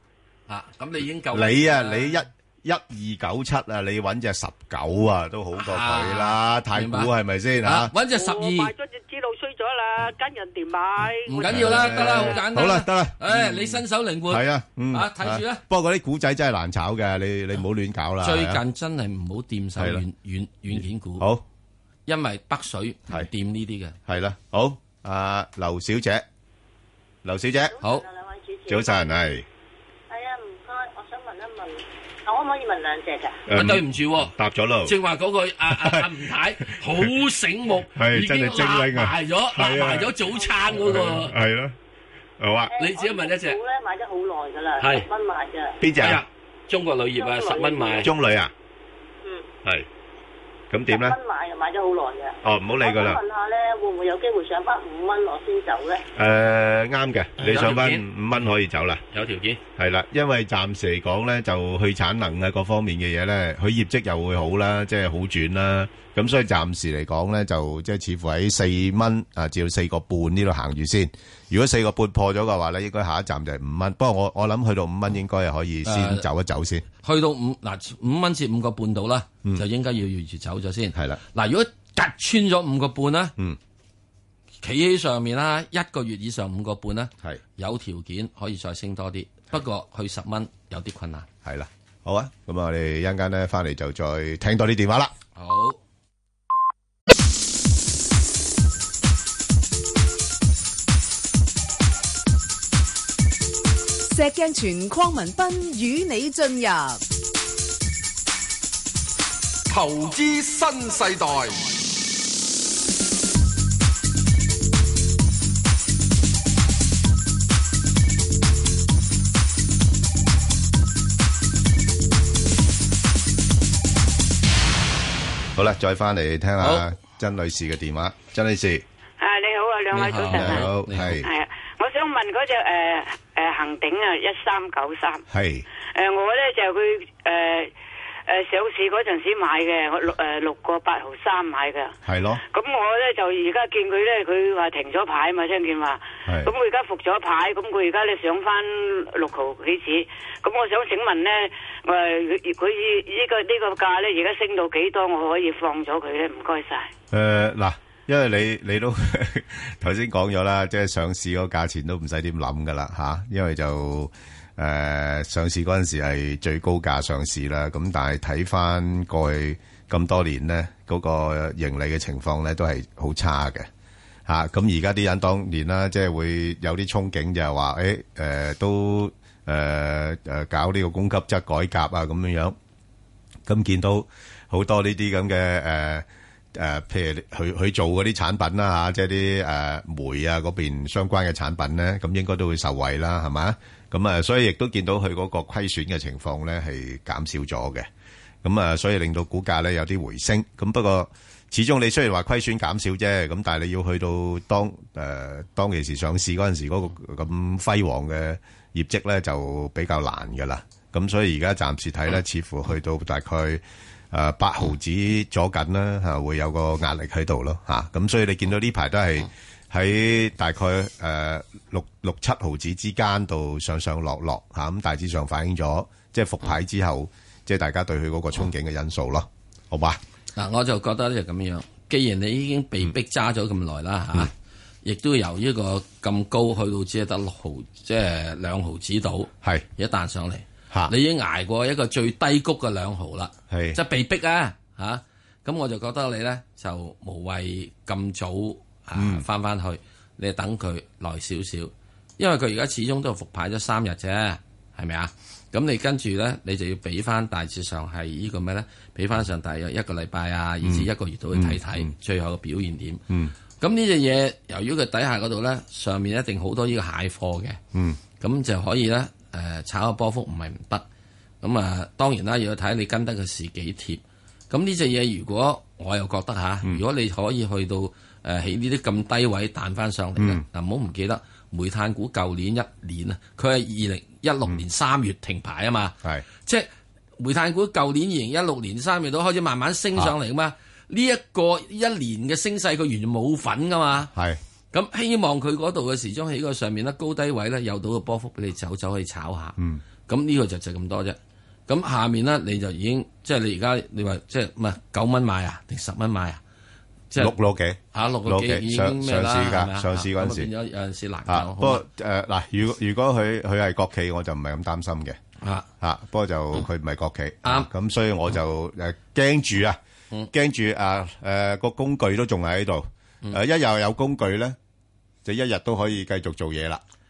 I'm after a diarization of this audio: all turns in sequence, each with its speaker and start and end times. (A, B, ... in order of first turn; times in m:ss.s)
0:00.5-0:02.2 A
0:01.3-0:07.9 B
0:05.5-0:07.1 A
0:07.6-0:08.7 A
0:08.1-0:12.4 C
0:11.2-0:15.6 A
0:11.4-0:18.6 B
0:18.2-0:21.3 A
0:19.8-0:20.0 B
0:20.7-0:21.4 B
0:22.1-0:24.0 A
0:24.0-0:26.2 B
0:27.2-0:27.7 B
0:27.7-0:29.1 D
0:28.7-0:29.4 B
0:30.1-0:33.4 D
0:33.5-0:34.9 B
0:33.5-0:34.3 A
0:34.8-0:41.3 A
0:35.7-0:36.0 B
0:37.9-0:41.7 B
0:40.3-0:40.7 D
0:42.4-0:42.7 B
0:42.7-0:45.8 D
0:42.8-0:43.6 A
0:44.8-0:45.1 A
0:45.8-0:46.2 B
0:46.0-0:48.1 A
0:47.1-0:48.1 D
0:48.0-0:48.5 B
0:50.7-0:51.2 B
0:50.9-0:56.0 D
0:52.4-0:53.2 B
0:56.1-0:59.0 B
0:57.4-0:58.1 A
0:59.1-0:59.6 A
0:59.8-1:16.8 B
1:15.8-1:16.2 A
1:17.0-1:23.3 A
1:20.9-1:21.2 B
1:24.6-1:31.3 A
1:31.4-1:35.1 B
1:35.4-1:35.8 A
1:44.1-1:47.0 E
1:49.7-1:51.7 F
2:05.5-2:08.8 B
2:06.6-2:06.8 A
2:09.2-2:15.2 G
2:09.9-2:11.2 A
2:10.3-2:11.3 B
2:15.3-2:15.6 B
2:15.9-2:17.7 G
2:18.3-2:36.9 G
2:22.0-2:22.4 B
2:37.1-2:53.7 B
2:54.3-3:02.6 B
3:03.4-3:17.9 B
3:18.4-3:50.0 B
3:50.4-3:54.3 A
3:54.8-4:23.0 A
4:03.5-4:03.8 B
4:08.9-4:09.2 B
4:20.6-4:21.9 B
4:23.6-4:27.6 A
4:27.7-4:28.0 B
4:28.2-4:30.8 A
4:31.4-4:54.1 A
4:40.2-4:40.4 B
4:54.1-4:54.4 B
4:54.7-5:01.2 A
5:01.7-5:06.4 A
5:07.2-5:10.5 B
5:07.9-5:11.8 A
5:11.3-5:15.2 B
5:15.4-5:15.7 A
5:15.8-5:19.8 B
5:17.4-5:17.7 A
5:20.3-5:24.6 B
5:25.2-5:26.8 B